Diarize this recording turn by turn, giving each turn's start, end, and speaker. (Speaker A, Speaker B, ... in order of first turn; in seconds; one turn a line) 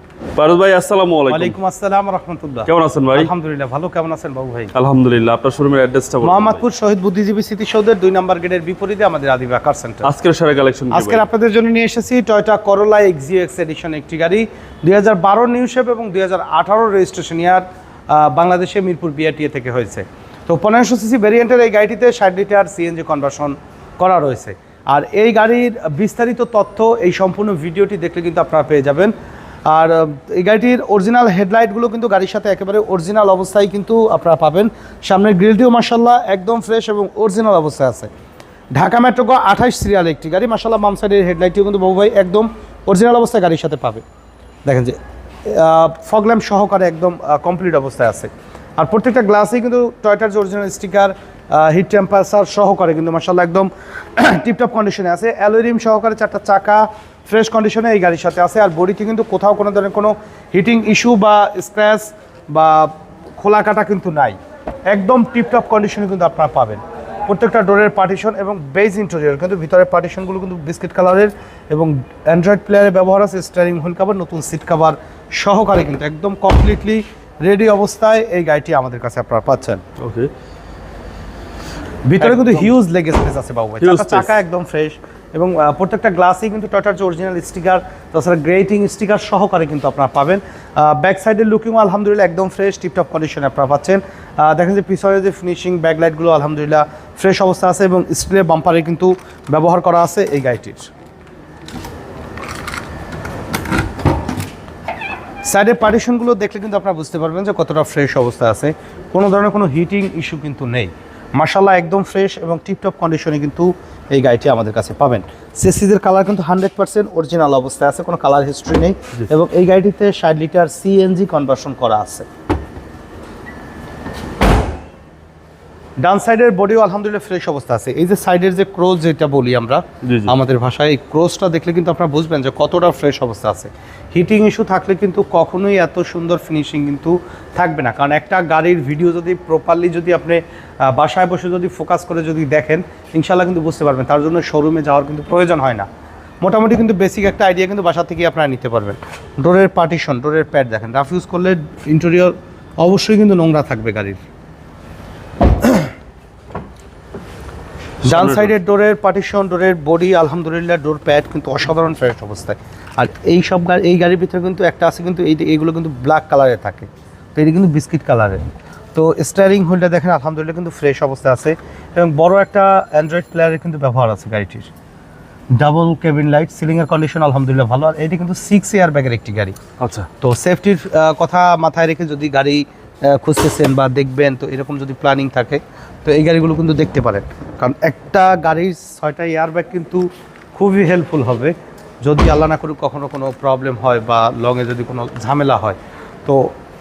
Speaker A: 0.4-1.6
Speaker B: 1.3-4.7
Speaker A: 2.7-3.3
Speaker A: 4.7-6.6
Speaker B: 6.2-10.1
Speaker A: 10.0-11.2
Speaker B: 10.9-29.1
Speaker B: 29.7-38.1
Speaker B: 38.8-44.0
Speaker B: 44.7-79.8
Speaker A: 80.0-80.3
Speaker B: 82.1-100.9
Speaker A: 82.2-82.7
Speaker A: 83.8-84.3
Speaker B: 105.5-122.3
Speaker B: 126.0-145.9
Speaker A: 130.0-130.3
Speaker B: 146.4-154.2
Speaker B: 155.6-155.9
Speaker B: 158.0-174.7
Speaker A: 158.1-158.5
Speaker B: 175.5-179.6
Speaker A: 179.8-180.1
Speaker B: 180.2-196.6